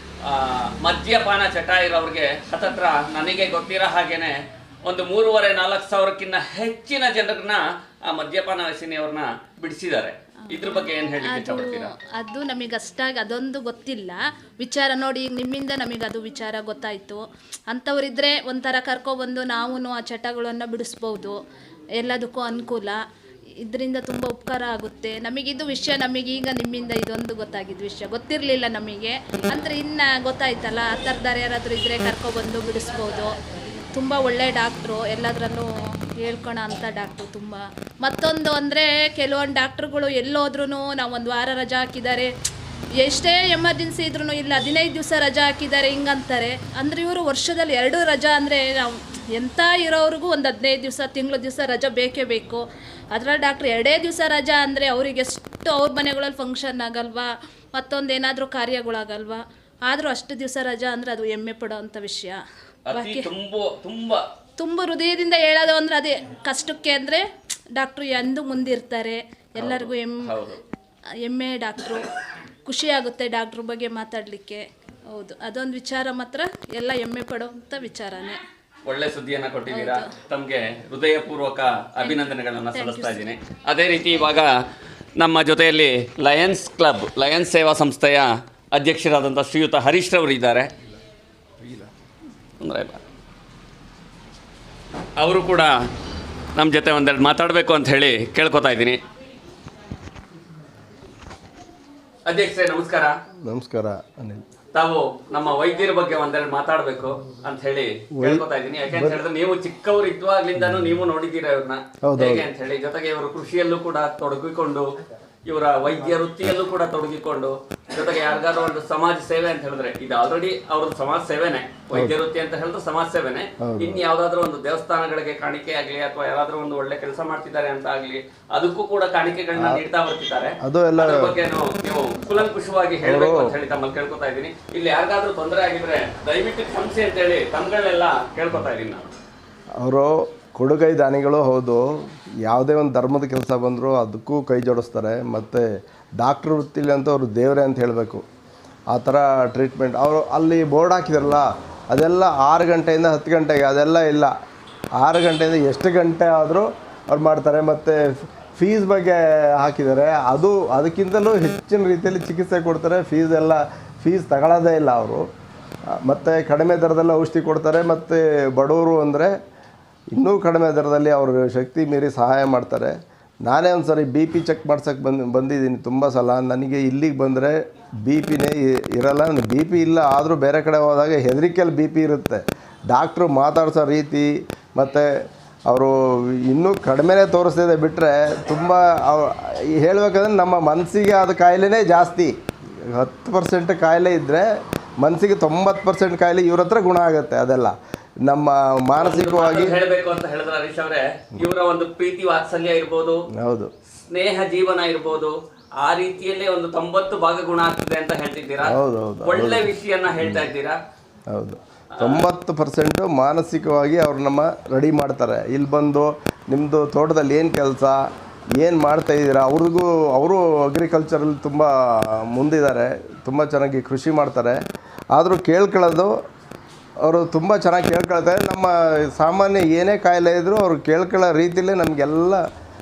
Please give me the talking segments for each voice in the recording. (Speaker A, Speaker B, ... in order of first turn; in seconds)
Speaker A: 0.2-11.9, 62.9-64.2, 69.6-70.6, 78.9-84.6, 85.2-90.7, 92.6-93.0, 95.2-95.8, 96.6-99.0, 102.3-103.2, 104.7-114.9, 115.5-139.1, 199.0-203.2, 204.1-210.8, 212.0-212.2
Speaker B: 10.5-21.4, 22.0-23.0, 23.6-33.4, 33.9-42.3, 43.0-52.6, 53.1-62.4, 62.9-63.3, 64.6-67.2, 67.8-70.3, 71.2-72.1, 72.7-78.4, 79.7-80.1, 82.0-83.2
Speaker C: 103.4-104.4, 108.2-109.2, 112.0-112.5, 123.6-124.0, 129.5-129.8, 130.6-131.3, 133.0-133.6, 139.8-145.7, 146.2-148.2, 148.9-154.3, 155.0-165.3, 165.9-169.3, 170.1-194.5, 195.0-199.8, 203.4-203.7, 208.7-210.5, 211.3-218.0, 218.6-224.6, 225.1-226.1, 227.0-232.4